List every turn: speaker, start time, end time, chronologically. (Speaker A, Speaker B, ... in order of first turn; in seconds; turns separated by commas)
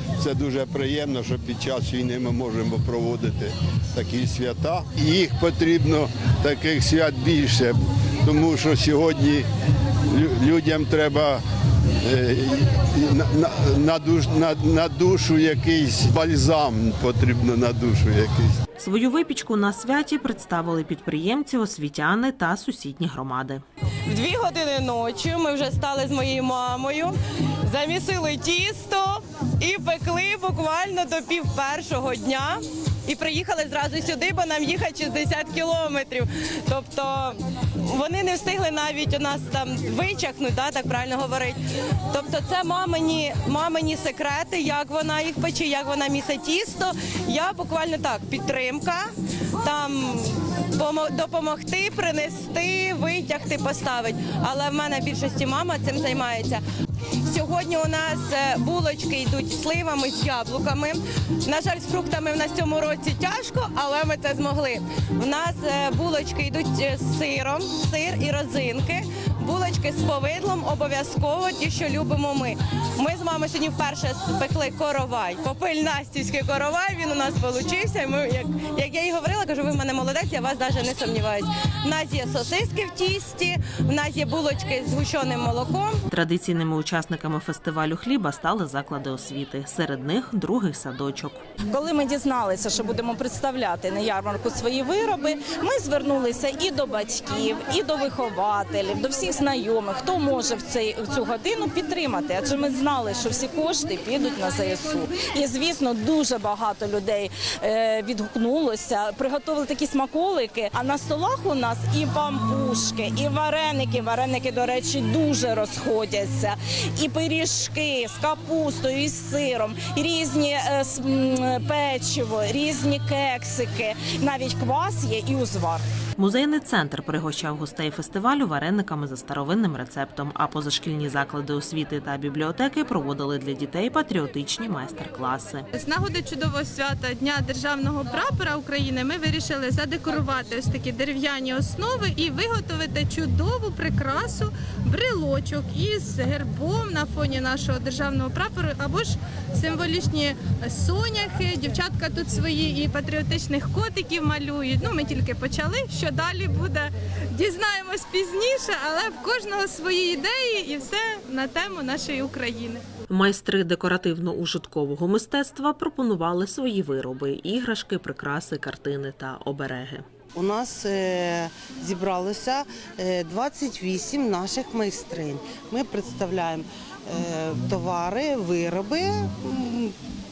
Speaker A: 0.2-9.4, Speaker A: 10.1-11.4, Speaker A: 12.0-18.6, Speaker B: 18.8-23.6, Speaker C: 24.1-41.6, Speaker C: 42.1-49.1, Speaker C: 49.6-56.6, Speaker C: 57.3-86.0, Speaker B: 86.1-91.5, Speaker D: 91.7-125.8, Speaker B: 126.2-135.7, Speaker E: 135.7-162.8, Speaker B: 163.1-170.1, Speaker F: 170.3-179.9